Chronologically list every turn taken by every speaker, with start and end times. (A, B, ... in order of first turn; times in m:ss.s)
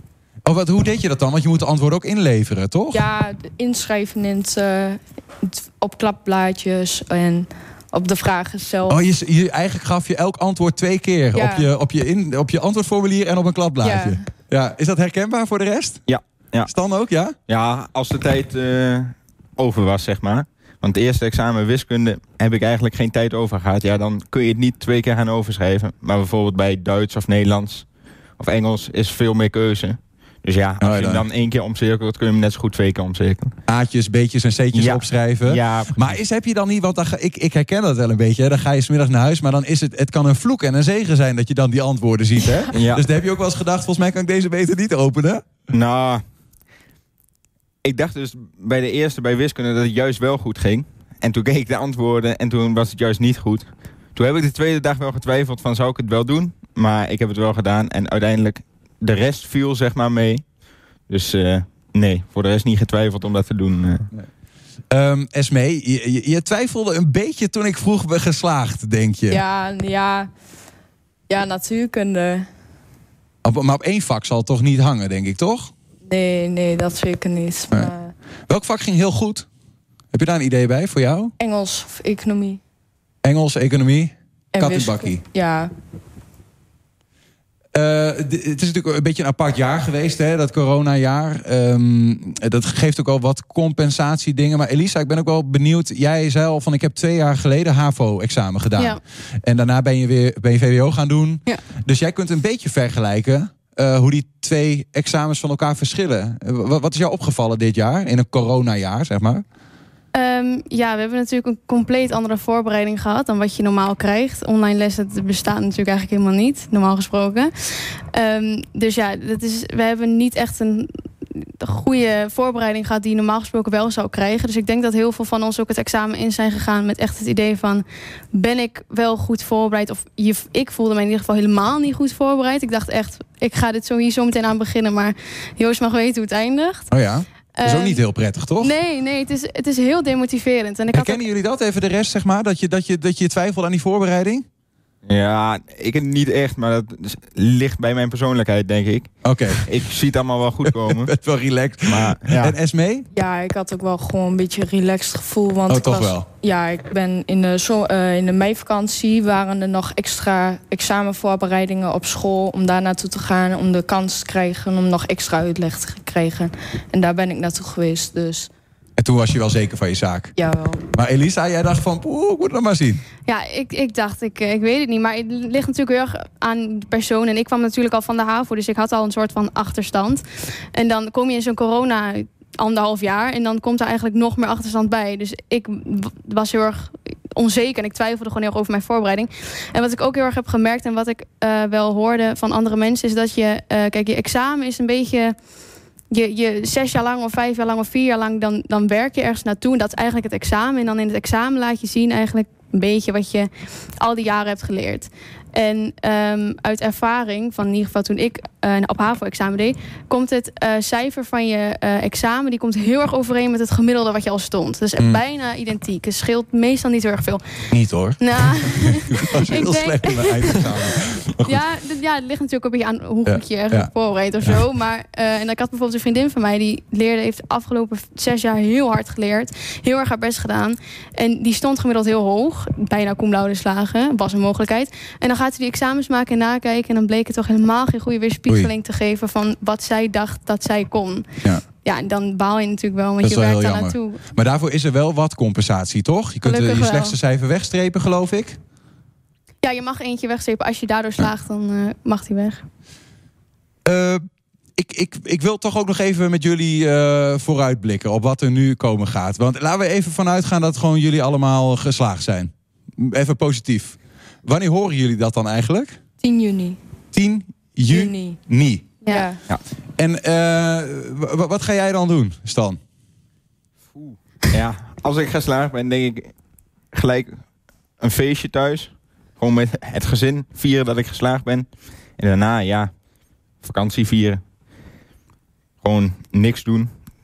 0:00.4-0:03.0 A
0:02.9-0:09.0 B
0:08.9-0:16.0 A
0:11.3-0:11.7 B
0:13.8-0:14.2 B
0:16.1-0:16.7 C
0:16.7-0:17.3 A
0:17.5-0:27.8 C
0:28.4-0:33.5 C
0:30.8-0:31.2 A
0:33.7-0:45.5 A
0:34.7-0:36.0 C
0:42.7-0:43.0 C
0:45.7-0:46.2 C
0:47.8-1:00.4 C
1:01.1-1:04.1 C
1:04.9-1:09.4 A
1:09.3-1:10.3 B
1:11.3-1:12.4 B
1:13.4-1:15.7 A
1:16.0-1:18.1 B
1:18.5-1:19.5 A
1:20.1-1:21.3 A
1:21.4-1:22.6 B
1:23.2-1:25.2 A
1:24.5-1:25.7 B
1:27.7-1:49.4 A
1:50.1-1:57.5 D
1:58.1-2:16.9 D
2:16.9-2:18.7 A
2:17.6-2:18.0 D
2:18.6-2:21.2 D
2:20.9-2:24.4 A
2:25.1-2:31.1 C
2:29.2-2:29.6 A
2:30.6-2:33.1 A
2:31.8-2:32.6 C
2:33.1-2:48.5 B
2:35.7-2:36.2 A
2:49.0-2:50.3 A
2:50.4-2:50.8 B
2:50.9-2:53.0 A
2:53.2-3:00.2 D
3:00.7-3:15.3 D
3:16.1-3:23.5 D
3:24.0-3:37.4 D
3:37.7-3:41.6 A
3:38.2-4:01.3 D
3:43.2-3:43.9 A
4:01.8-4:04.2 D
4:03.2-4:08.6 A
4:06.4-4:07.2 D
4:09.6-4:12.6 D
4:13.8-4:14.2 A
4:14.8-4:26.0 A
4:26.2-4:26.8 B
4:27.1-4:28.9 A
4:27.9-4:28.4 B
4:29.1-4:29.4 B
4:30.0-4:32.8 A
4:34.0-4:36.3 C
4:36.9-4:37.4 C
4:38.0-4:42.9 C
4:43.6-4:44.4 C
4:45.8-4:46.9 C